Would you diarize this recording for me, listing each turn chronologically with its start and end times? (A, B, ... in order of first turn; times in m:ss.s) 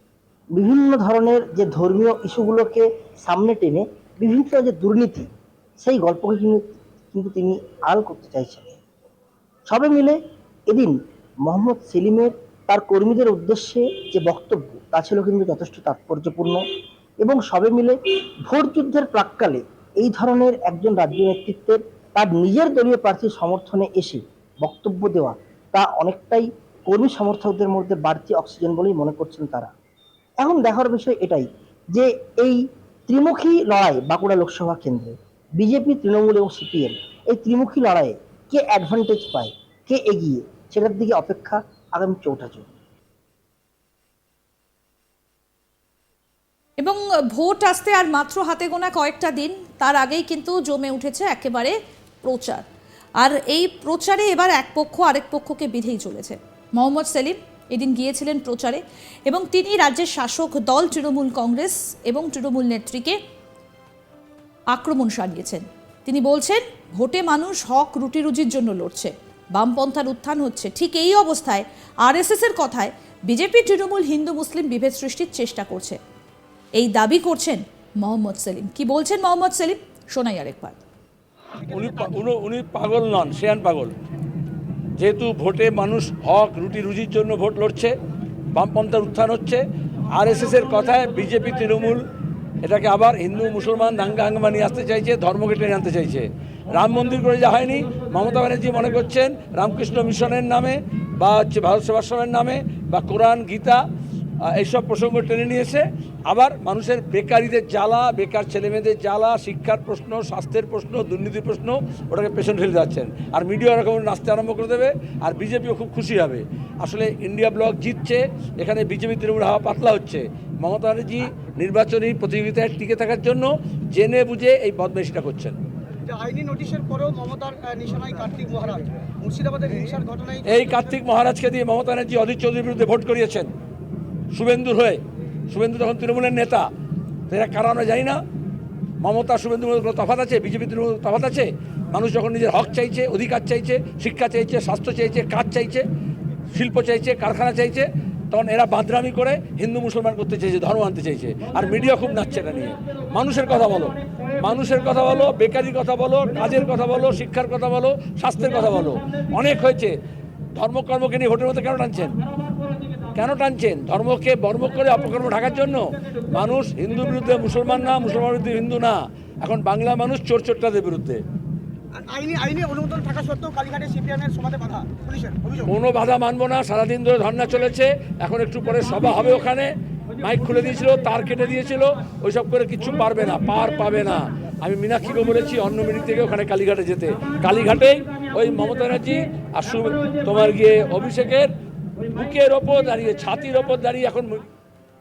0:00.6-0:05.3 A
0:05.8-0:08.8 A
0:09.7-0:10.2 A
0:10.7-0:11.0 A
0:11.5-0:16.6 A
0:17.2-0:29.7 A
0:30.4-0:42.7 A
0:46.8-0:52.6 B
0:53.2-1:03.2 B
1:04.7-1:16.0 B
1:16.8-1:20.8 B
1:21.6-1:21.9 C
1:21.7-1:23.9 D
1:25.0-1:27.9 D
1:28.6-1:29.6 D
1:30.2-1:32.0 D
1:32.6-1:43.8 D
1:44.4-2:05.6 D
2:06.1-2:10.9 C
2:10.4-2:13.5 D
2:14.3-2:16.7 D
2:17.3-2:18.2 D
2:19.0-2:25.9 D
2:26.5-2:40.0 D
2:40.5-2:42.2 D
2:43.1-2:51.2 D
2:51.9-2:55.7 C
2:55.6-3:11.5 D
3:12.1-3:14.5 D